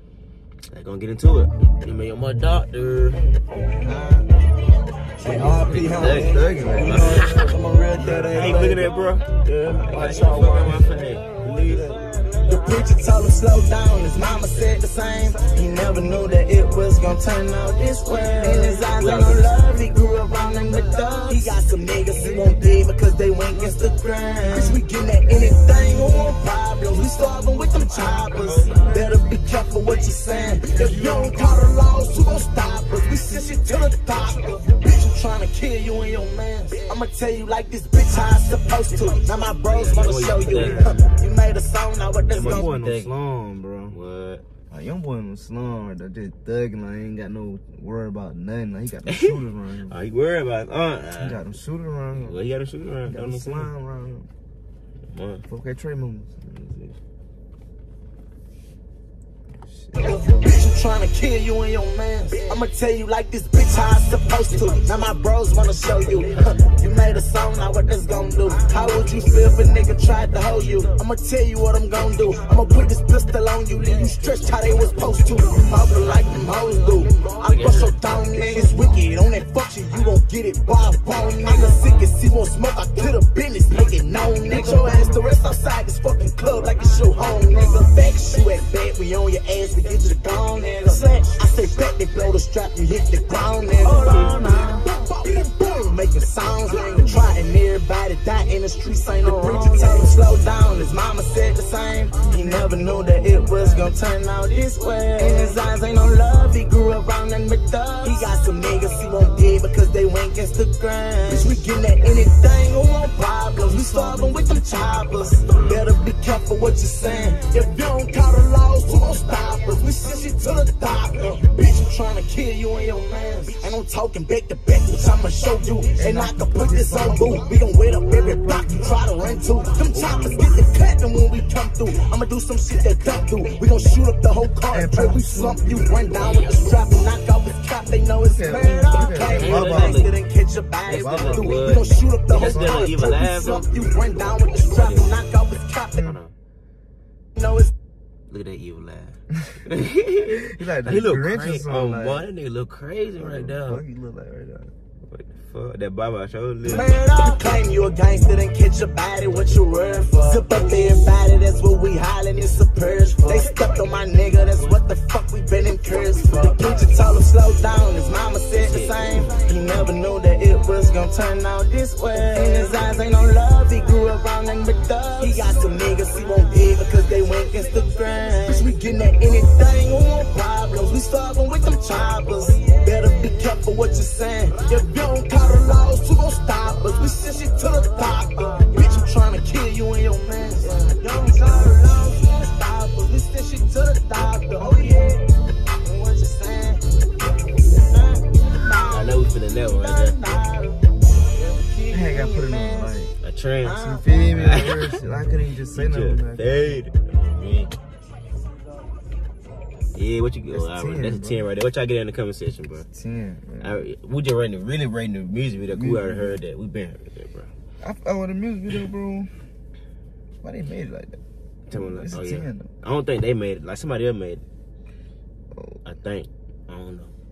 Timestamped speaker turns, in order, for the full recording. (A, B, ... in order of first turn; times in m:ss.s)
0:00.7-0:03.3 A
0:03.8-0:04.3 B
0:05.2-0:08.9 B
0:05.2-0:07.2 C
0:05.7-0:07.5 A
0:08.1-0:08.5 C
0:08.1-0:12.1 A
0:09.8-0:10.8 B
0:12.4-0:42.7 B
0:18.9-0:19.6 A
0:28.4-0:28.9 A
0:39.7-0:41.0 A
0:40.5-0:41.0 C
0:42.3-0:43.1 A
0:42.4-0:44.0 C
0:43.9-0:44.4 A
0:44.7-0:50.0 C
0:49.1-0:51.6 A
0:51.2-0:52.4 C
0:52.1-0:53.7 A
0:53.0-0:54.3 C
0:55.1-0:55.4 A
0:55.4-0:57.0 C
0:59.6-1:00.2 C
1:00.0-2:26.1 B
1:17.4-1:17.9 A
1:34.0-1:34.4 A
1:42.5-1:42.9 C
2:06.0-2:07.4 C
2:10.0-2:10.4 C
2:14.7-2:15.9 C
2:16.2-2:16.5 A
2:18.2-2:20.1 C
2:19.3-2:20.1 A
2:20.8-2:23.8 A
2:20.9-2:21.8 C
2:22.4-2:22.8 C
2:24.7-2:25.2 A
2:26.0-2:26.3 A
2:27.4-2:27.7 B
2:28.3-2:33.8 A
2:29.3-2:29.7 C
2:30.3-2:32.2 C
2:33.2-2:34.7 C
2:35.0-2:37.0 A
2:36.7-3:15.2 B
2:44.5-2:44.8 A
2:48.5-2:49.5 A
3:15.8-3:16.8 B
3:17.6-3:20.8 B
3:18.9-3:20.2 A
3:21.4-3:23.0 B
3:21.9-3:23.1 C
3:23.2-3:25.0 A
3:23.6-3:24.1 B
3:23.7-3:26.8 C
3:25.7-3:27.7 A
3:29.9-3:32.9 A
3:30.5-3:31.5 C
3:32.9-3:33.9 C
3:33.6-3:37.5 A
3:35.6-3:36.4 C
3:37.8-3:39.3 C
3:40.4-3:41.2 C
3:41.7-3:44.4 A
3:41.7-3:42.7 C
3:45.5-3:45.8 C
3:45.8-3:47.1 A